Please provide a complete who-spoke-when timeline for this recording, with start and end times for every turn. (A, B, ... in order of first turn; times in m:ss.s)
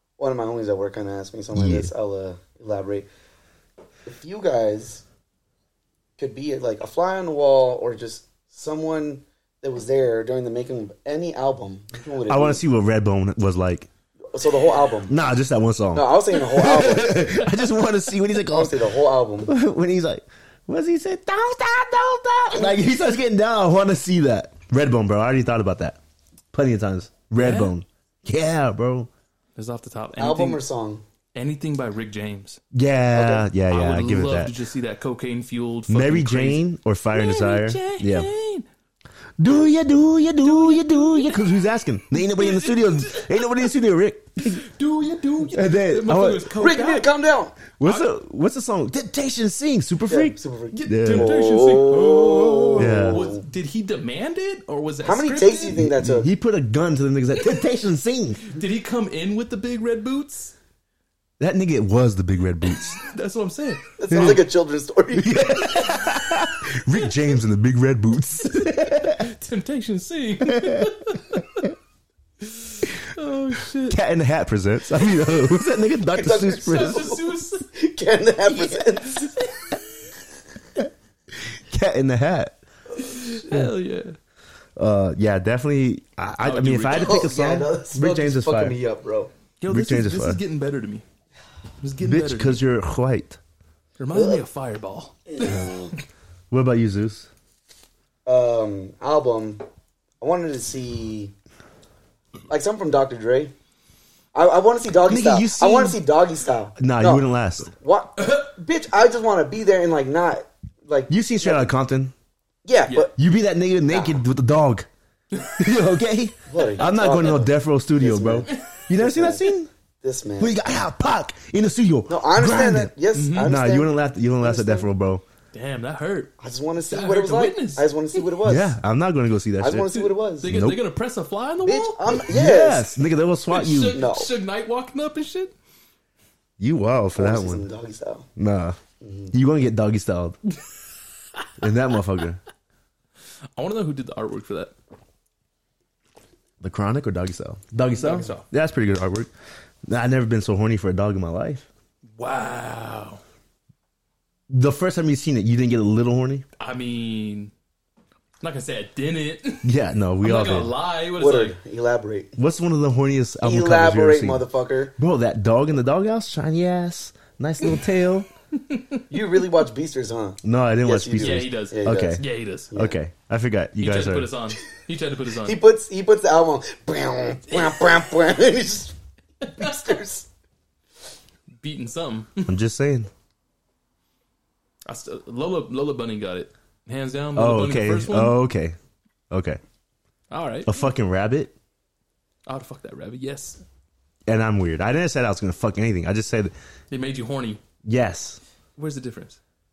0:00.2-0:03.1 A
0:01.5-0:01.9 B
0:04.0-0:05.0 A
0:06.2-0:12.6 A
0:12.2-0:13.9 B
0:14.3-0:15.1 A
0:14.5-0:14.8 C
0:15.1-0:18.8 B
0:15.9-0:17.3 A
0:18.5-0:19.5 A
0:19.4-0:26.0 B
0:26.5-0:29.1 B
0:27.4-0:27.7 C
0:29.6-0:30.6 C
0:30.2-0:31.0 A
0:31.3-0:32.6 C
0:32.7-0:34.6 B
0:33.1-0:33.5 A
0:33.7-0:38.6 C
0:35.9-0:38.3 B
0:39.4-0:44.6 B
0:40.4-0:41.5 C
0:42.1-0:43.5 C
0:44.4-0:47.1 C
0:45.5-0:46.5 B
0:46.5-0:47.6 A
0:47.8-0:51.3 B
0:47.8-0:48.1 C
0:50.1-0:53.4 A
0:50.7-0:55.8 C
0:52.8-0:53.2 B
0:55.0-0:56.3 A
0:55.7-0:58.4 B
0:58.4-1:00.5 C
1:01.4-1:03.0 B
1:02.8-1:04.4 C
1:04.0-1:05.6 A
1:04.1-1:04.4 B
1:05.1-1:09.3 B
1:09.0-1:11.7 C
1:10.4-1:10.9 B
1:12.4-1:14.0 C
1:13.9-1:17.1 B
1:16.1-1:19.3 A
1:16.6-1:17.7 C
1:18.5-1:19.8 C
1:21.7-1:22.6 B
1:23.0-1:24.2 C
1:24.8-1:28.8 B
1:26.4-1:27.3 C
1:26.9-1:29.3 A
1:29.6-1:31.0 C
1:29.7-1:30.4 B
1:31.8-1:32.6 C
1:32.0-1:33.4 B
1:34.0-1:35.6 C
1:34.1-1:34.4 A
1:35.4-1:35.9 A
1:35.4-1:35.7 B
1:36.5-1:37.3 B
1:38.2-1:39.6 A
1:40.2-1:41.3 A
1:42.5-1:43.5 A
1:44.3-1:51.7 A
1:45.0-1:46.0 B
1:46.8-1:47.7 B
1:51.1-1:52.1 B
1:52.6-1:53.1 A
1:53.1-1:54.9 B
1:53.9-1:54.2 A
1:55.6-1:59.7 B
1:56.5-1:59.5 A
1:56.6-1:56.9 C
2:00.0-2:00.6 A
2:00.4-2:05.2 B
2:02.1-2:04.9 A
2:03.1-2:03.6 C
2:05.5-2:06.3 C
2:06.4-2:08.8 A
2:06.8-2:08.2 C
2:08.4-2:09.9 B
2:09.6-2:10.5 A
2:09.9-2:12.1 C
2:10.4-2:10.8 B
2:11.6-2:12.9 A
2:12.2-2:14.0 B
2:13.5-2:15.5 C
2:13.8-2:14.3 A
2:16.6-2:17.7 B
2:17.2-2:18.3 A
2:18.4-2:18.8 B
2:19.0-2:19.3 A
2:19.3-2:20.4 B
2:21.6-2:22.4 B
2:23.6-2:24.7 C
2:26.6-2:29.3 B
2:27.9-2:28.5 C
2:29.8-2:31.7 B
2:32.2-2:33.2 C
2:34.5-2:36.4 B
2:36.6-2:37.5 C
2:38.4-2:39.7 C
2:39.6-2:40.7 B
2:40.2-2:41.6 C
2:41.2-2:42.3 A
2:42.4-2:44.4 B
2:43.4-2:44.9 A
2:45.0-2:48.3 B
2:48.6-2:49.0 C
2:49.1-2:53.0 A
2:50.4-2:54.3 B
2:51.2-2:52.7 C
2:53.8-2:55.6 C
2:55.4-2:58.9 A
2:59.4-3:00.0 C
2:59.5-3:00.3 A
3:01.6-3:02.5 C
3:02.5-3:03.1 B
3:04.8-3:08.4 C
3:07.3-3:08.8 B
3:09.3-3:09.6 B
3:10.3-3:10.8 C
3:10.6-3:11.5 B
3:12.4-3:13.6 C
3:14.3-3:16.5 B
3:16.9-3:17.6 C
3:17.8-3:18.4 B
3:18.8-3:19.4 C